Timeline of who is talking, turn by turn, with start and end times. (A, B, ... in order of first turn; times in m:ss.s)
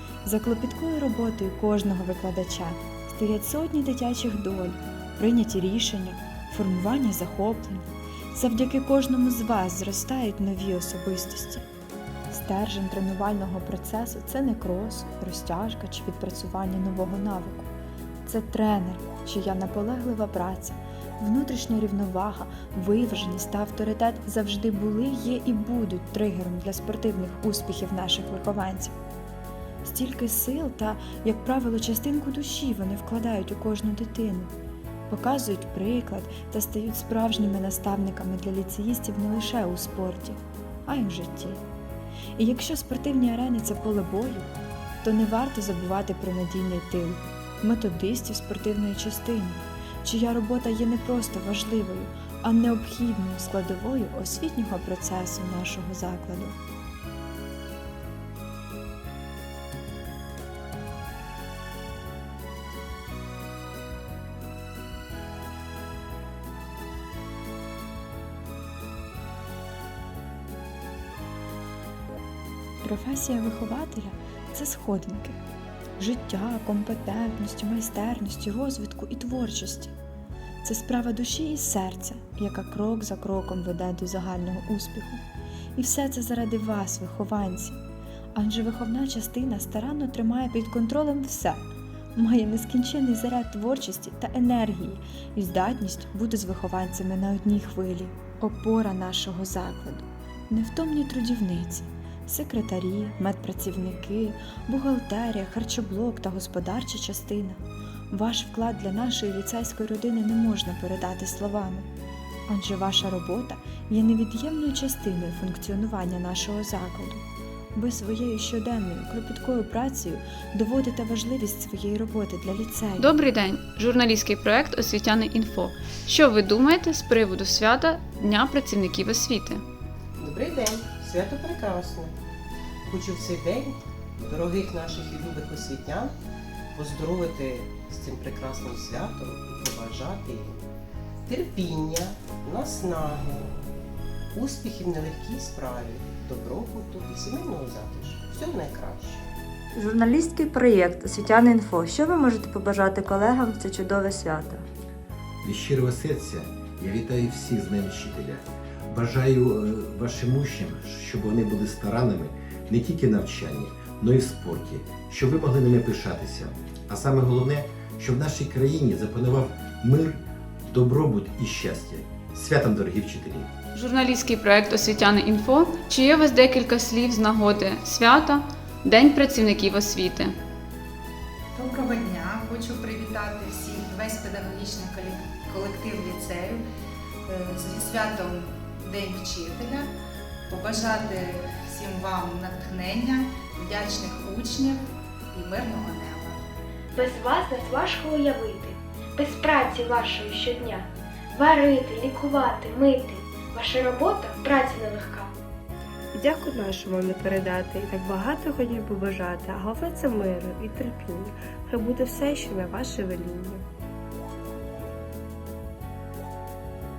0:00.2-0:11.6 A
0:12.3-0:17.7 A
0:18.2-0:29.0 A
0:29.8-0:34.5 A
0:35.1-0:41.6 A
0:42.4-0:44.5 A
0:45.0-0:56.6 A
1:12.8-1:15.4 A
1:16.0-1:19.9 A
1:20.6-1:25.2 A
1:25.8-1:27.8 A
1:28.4-1:31.6 A
1:32.2-1:51.9 A
1:52.5-1:57.2 A
1:57.8-2:03.2 A
2:03.0-2:09.6 B
2:10.2-2:12.1 C
2:12.9-2:16.1 C
2:16.7-2:20.6 C
2:21.3-2:23.5 C
2:24.3-2:29.2 C
2:29.7-2:34.6 D
2:35.4-2:53.5 E
2:53.7-3:00.3 B
3:01.6-3:06.6 F
3:07.3-3:09.9 F
3:10.5-3:14.8 F
3:15.3-3:16.4 F
3:17.0-3:18.6 G
3:19.2-3:20.7 G
3:21.4-3:22.9 G
3:23.6-3:25.1 G
3:26.2-3:33.6 H